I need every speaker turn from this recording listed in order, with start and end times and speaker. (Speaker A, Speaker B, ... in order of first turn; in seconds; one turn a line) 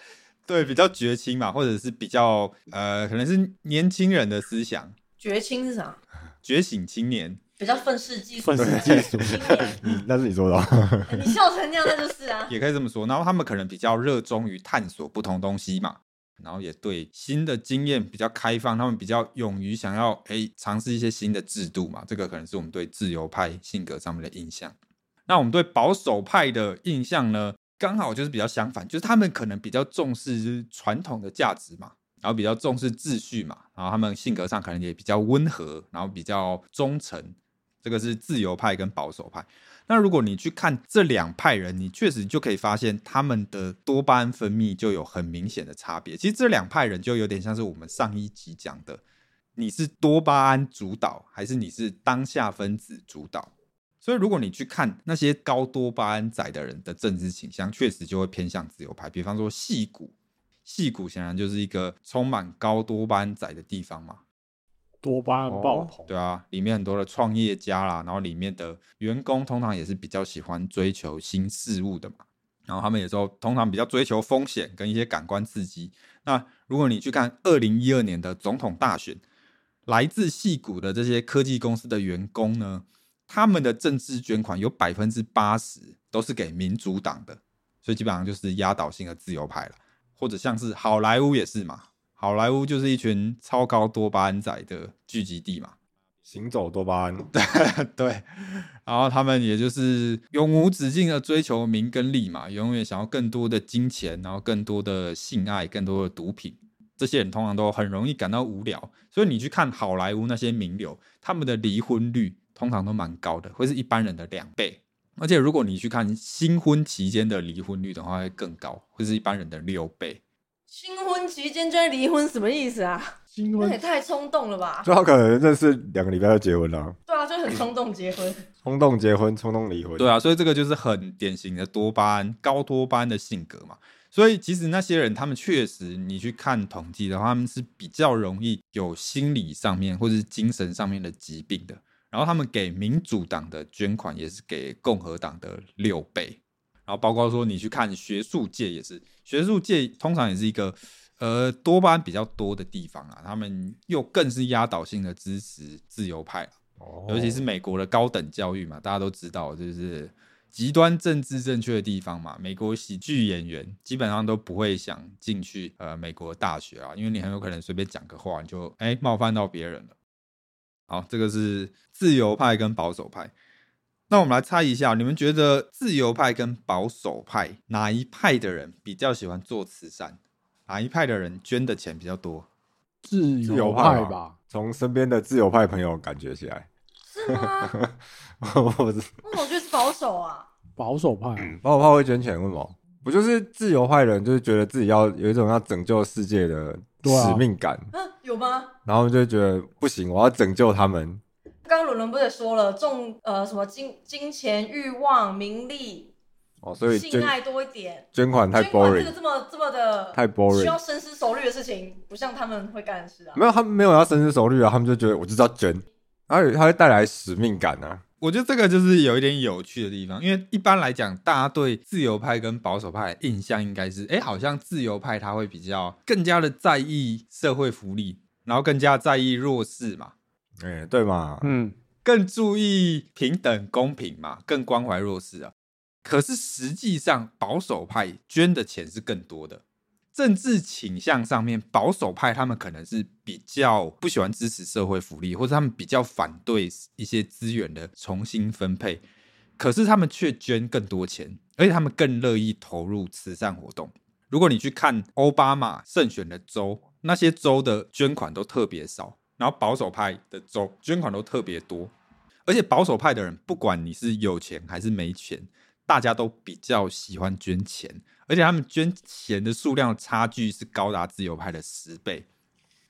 Speaker A: 0.5-4.9
Speaker B: 5.2-6.0
Speaker A: 6.4-7.4
Speaker B: 7.6-9.8
Speaker C: 8.4-9.3
Speaker D: 8.5-11.3
Speaker B: 11.1-12.5
Speaker A: 12.5-24.7
Speaker A: 25.3-49.0
Speaker A: 49.5-53.5
Speaker A: 54.0-60.1
Speaker A: 60.6-64.2
Speaker C: 65.0-66.1
Speaker D: 65.5-65.9
Speaker A: 66.1-79.2
Speaker A: 79.8-95.7
Speaker D: 96.3-97.3
Speaker A: 97.3-120.2
Speaker B: 120.7-124.9
Speaker C: 123.3-123.8
Speaker D: 124.8-127.0
Speaker B: 127.1-128.4
Speaker D: 128.6-130.1
Speaker A: 130.0-156.5
Speaker D: 156.8-157.4
Speaker A: 157.1-169.9
Speaker A: 170.9-173.3
Speaker A: 174.1-182.5
Speaker C: 183.0-184.3
Speaker D: 183.4-186.7
Speaker B: 187.1-187.7
Speaker D: 187.2-189.1
Speaker B: 189.2-190.5
Speaker C: 190.8-191.5
Speaker D: 191.4-197.9
Speaker C: 197.0-197.4
Speaker B: 197.9-198.7
Speaker D: 198.8-201.2
Speaker B: 201.6-206.1
Speaker D: 206.6-207.3
Speaker B: 206.9-213.4
Speaker D: 208.1-209.1
Speaker D: 210.1-210.8
Speaker D: 213.3-218.0
Speaker A: 218.2-230.1
Speaker D: 230.6-231.6
Speaker C: 231.4-231.7
Speaker A: 232.0-235.5
Speaker A: 236.0-239.6
Speaker A: 240.1-249.0
Speaker A: 249.6-261.9
Speaker A: 262.4-272.2